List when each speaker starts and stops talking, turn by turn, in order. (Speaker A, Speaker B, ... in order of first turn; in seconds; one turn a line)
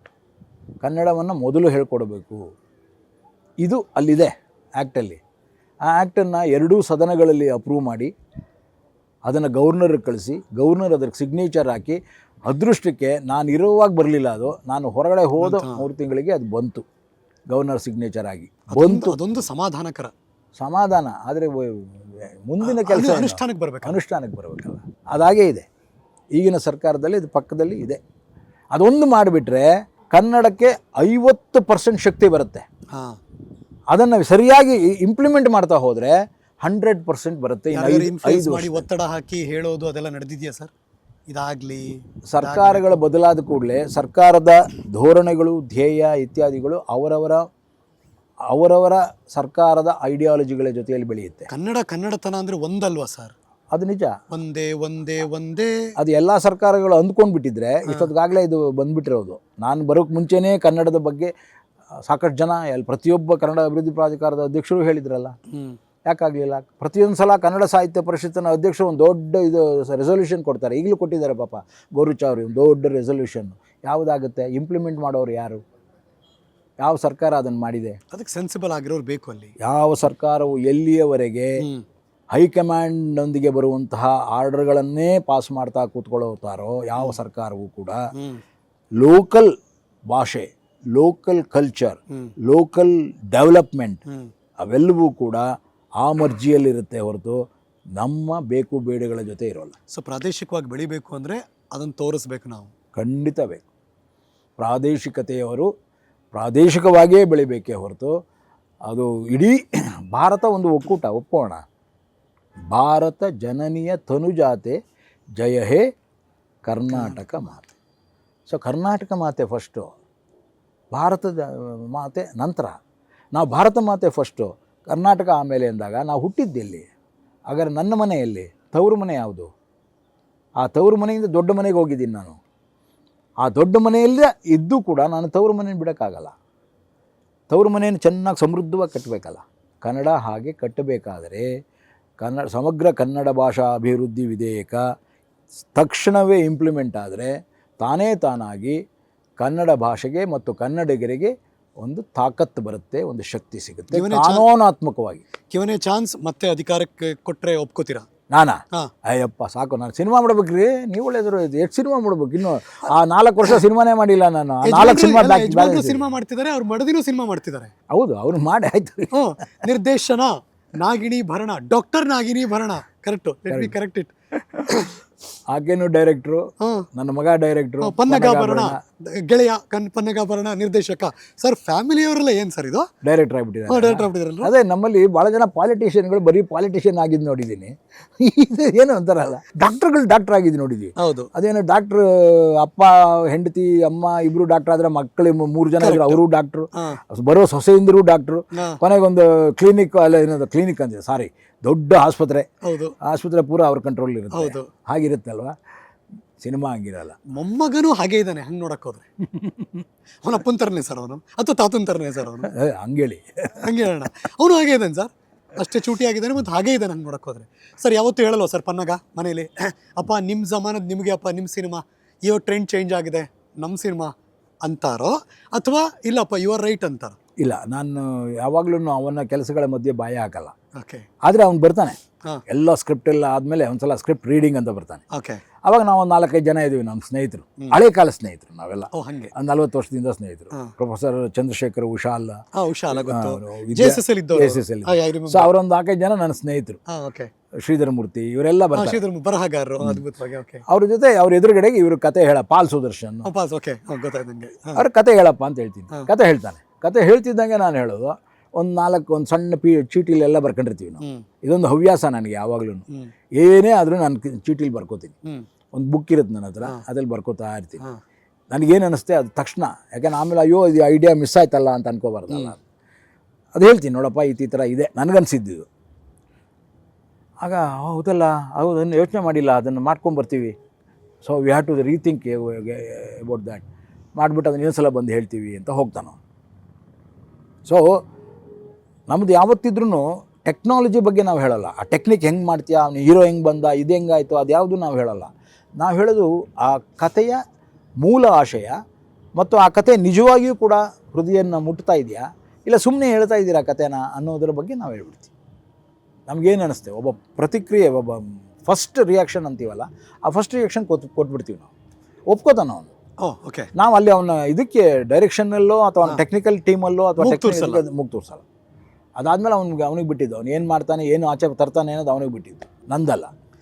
Speaker A: 0.8-2.4
Speaker A: 3.6-5.2
Speaker A: 5.8-8.1
Speaker A: 9.2-16.8
Speaker B: 15.4-15.8
Speaker A: 17.5-19.2
Speaker B: 18.7-20.1
Speaker A: 20.6-25.6
Speaker B: 22.6-24.0
Speaker A: 26.4-28.0
Speaker A: 28.7-32.6
Speaker B: 32.9-33.2
Speaker A: 33.9-38.9
Speaker B: 37.7-40.7
Speaker B: 41.3-43.0
Speaker A: 42.3-47.5
Speaker A: 48.5-51.5
Speaker B: 51.5-53.3
Speaker A: 53.7-54.2
Speaker B: 54.3-55.9
Speaker A: 56.0-61.3
Speaker A: 62.0-65.3
Speaker B: 65.5-65.8
Speaker A: 66.0-75.6
Speaker A: 76.8-78.0
Speaker B: 78.1-79.5
Speaker A: 79.6-81.6
Speaker B: 81.6-81.8
Speaker A: 82.3-88.0
Speaker B: 88.1-88.4
Speaker A: 89.0-89.5
Speaker A: 90.1-94.0
Speaker A: 94.6-95.5
Speaker A: 96.0-97.4
Speaker A: 98.0-99.7
Speaker B: 99.9-102.7
Speaker A: 102.9-103.6
Speaker A: 104.6-105.7
Speaker A: 106.3-108.1
Speaker A: 108.9-111.6
Speaker A: 112.7-114.8
Speaker A: 115.4-115.8
Speaker A: 116.7-117.7
Speaker B: 116.9-117.2
Speaker A: 118.5-119.9
Speaker A: 120.9-122.7
Speaker A: 123.3-126.9
Speaker A: 127.5-129.5
Speaker A: 130.6-132.4
Speaker A: 133.4-136.3
Speaker A: 137.5-141.5
Speaker A: 142.2-144.8
Speaker A: 145.7-148.8
Speaker A: 149.4-155.2
Speaker B: 153.9-154.4
Speaker B: 155.5-158.1
Speaker A: 158.3-166.1
Speaker B: 164.6-167.7
Speaker A: 167.9-169.1
Speaker B: 169.1-174.1
Speaker B: 174.7-174.9
Speaker A: 175.5-178.8
Speaker B: 176.6-176.9
Speaker B: 177.8-182.9
Speaker A: 183.0-202.5
Speaker B: 183.7-184.5
Speaker B: 191.0-191.3
Speaker B: 195.8-196.2
Speaker B: 202.6-202.9
Speaker A: 203.0-205.6
Speaker B: 204.3-204.7
Speaker A: 206.4-207.2
Speaker B: 207.3-209.0
Speaker B: 210.2-212.5
Speaker A: 212.5-213.7
Speaker B: 213.6-224.1
Speaker B: 224.6-227.2
Speaker A: 227.4-230.5
Speaker B: 230.8-231.1
Speaker A: 231.2-232.0
Speaker A: 232.5-235.0
Speaker B: 235.1-235.4
Speaker A: 235.6-242.4
Speaker B: 238.9-239.3
Speaker B: 242.6-245.5
Speaker A: 242.9-246.8
Speaker B: 246.9-247.3
Speaker A: 247.6-249.0
Speaker B: 248.7-250.6
Speaker A: 250.7-253.3
Speaker B: 253.2-254.8
Speaker A: 254.8-262.8
Speaker A: 263.4-265.1
Speaker A: 265.7-267.8
Speaker A: 268.5-272.6
Speaker A: 273.5-275.6
Speaker A: 277.4-280.5
Speaker A: 281.2-283.6
Speaker A: 284.1-286.2
Speaker A: 287.6-288.0
Speaker A: 289.1-297.4
Speaker A: 298.0-298.8
Speaker A: 299.4-305.3
Speaker A: 306.3-311.7
Speaker A: 312.3-312.9
Speaker B: 313.2-313.7
Speaker A: 313.7-318.4
Speaker B: 317.2-317.8
Speaker A: 319.2-323.3